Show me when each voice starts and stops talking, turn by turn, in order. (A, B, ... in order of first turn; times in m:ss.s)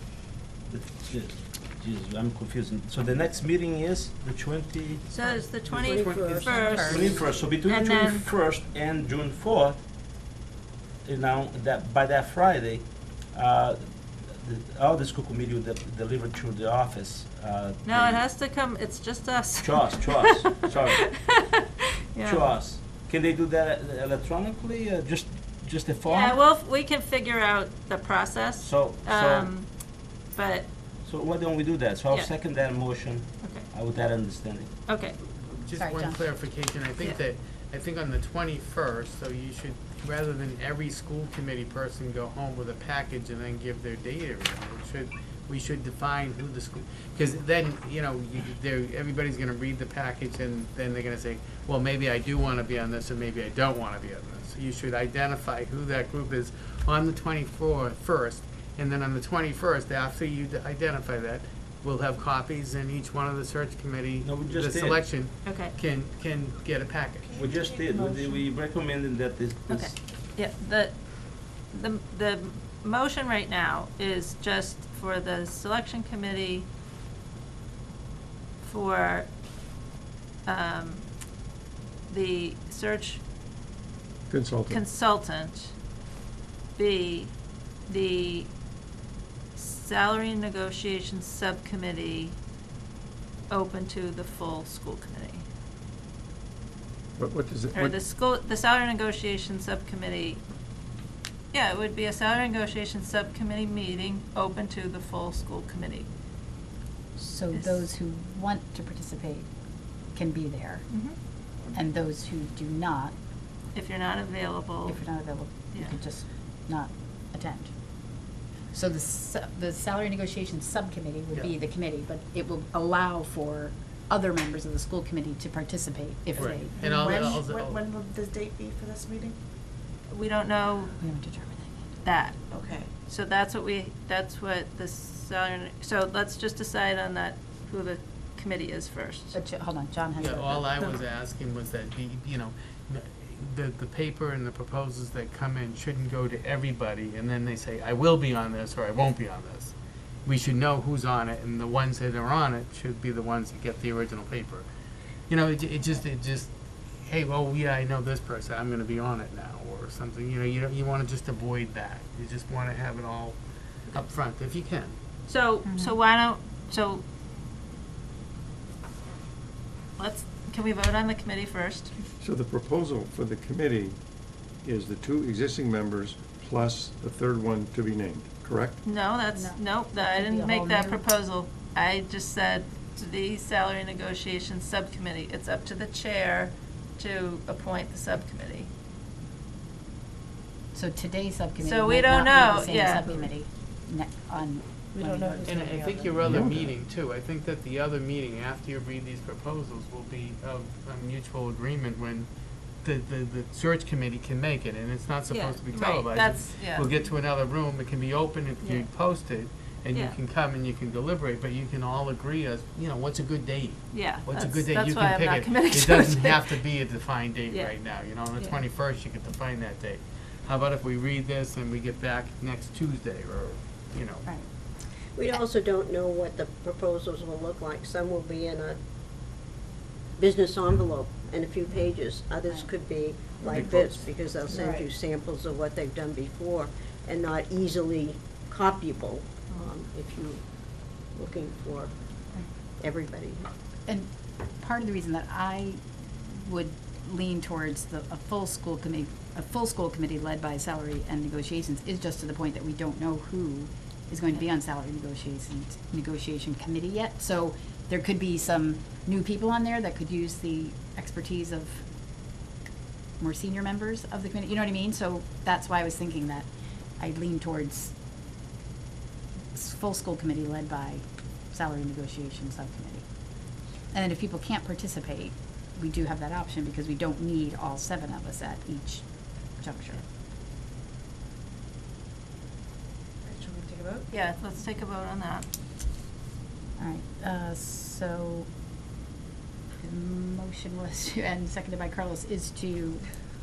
0:00.7-0:05.1 A
0:05.1-0:07.0 B
0:05.7-0:07.2 C
0:05.7-0:07.4 D
0:06.4-0:06.8 E
0:06.9-0:09.8 A
0:07.6-0:08.2 B
0:11.0-0:18.3 A
0:17.8-0:22.6 B
0:19.6-0:21.1 A
0:22.2-0:26.4 A
0:26.0-0:30.7 B
0:28.6-0:29.5 A
0:31.0-0:34.8 A
0:33.4-0:33.7 B
0:34.9-0:35.2 B
0:35.6-1:07.5 C
0:35.7-0:36.2 E
1:04.2-1:05.0 A
1:05.4-1:05.7 B
1:07.3-1:08.4 F
1:07.4-1:10.0 A
1:09.7-1:16.7 B
1:18.6-1:19.3 B
1:20.4-1:21.1 B
1:22.1-1:23.2 B
1:24.3-1:24.8 G
1:24.7-1:25.7 B
1:26.8-1:27.4 B
1:27.9-1:28.5 B
1:29.6-1:32.4 B
1:33.5-1:35.4 B
1:37.2-1:38.0 G
1:37.7-1:40.4 B
1:41.5-1:46.1 B
1:47.2-1:49.5 E
1:50.1-1:50.9 E
1:50.9-1:51.2 B
1:51.6-1:53.2 E
1:53.7-1:56.0 B
1:54.9-1:57.7 E
1:58.7-2:07.4 E
2:06.4-2:07.8 C
2:06.8-2:09.4 F
2:10.1-2:11.0 B
2:11.0-2:11.9 E
2:12.0-2:12.4 B
2:12.5-2:12.9 F
2:13.0-2:19.4 B
2:19.3-2:20.8 E
2:20.2-2:29.7 C
2:30.3-2:34.7 C
2:35.3-2:36.5 C
2:37.1-2:43.4 C
2:43.9-2:45.0 C
2:45.3-2:47.0 B
2:45.6-2:46.0 E
2:50.0-2:51.9 B
2:52.2-2:54.0 G
2:54.6-2:58.8 G
2:58.8-3:08.7 B
2:59.3-3:01.0 E
3:10.7-3:15.8 E
3:11.6-3:13.1 B
3:14.9-3:16.4 F
3:15.4-3:22.3 C
3:16.2-3:16.7 G
3:22.8-3:44.4 C
3:25.3-3:26.9 B
3:28.6-3:28.9 B
3:33.9-3:36.6 B
3:37.5-3:37.8 B
3:45.1-3:48.8 D
3:50.2-4:01.9 D
3:53.6-3:54.0 A
3:54.5-3:54.9 F
4:02.8-4:03.5 D
4:03.9-4:21.8 E
4:23.2-4:26.5 E
4:27.0-4:27.9 E
4:29.5-4:33.0 E
4:33.9-4:39.1 E
4:39.6-4:40.0 E
4:43.2-4:44.1 F
4:44.1-4:45.5 B
4:46.8-4:48.5 E
4:49.8-4:53.1 E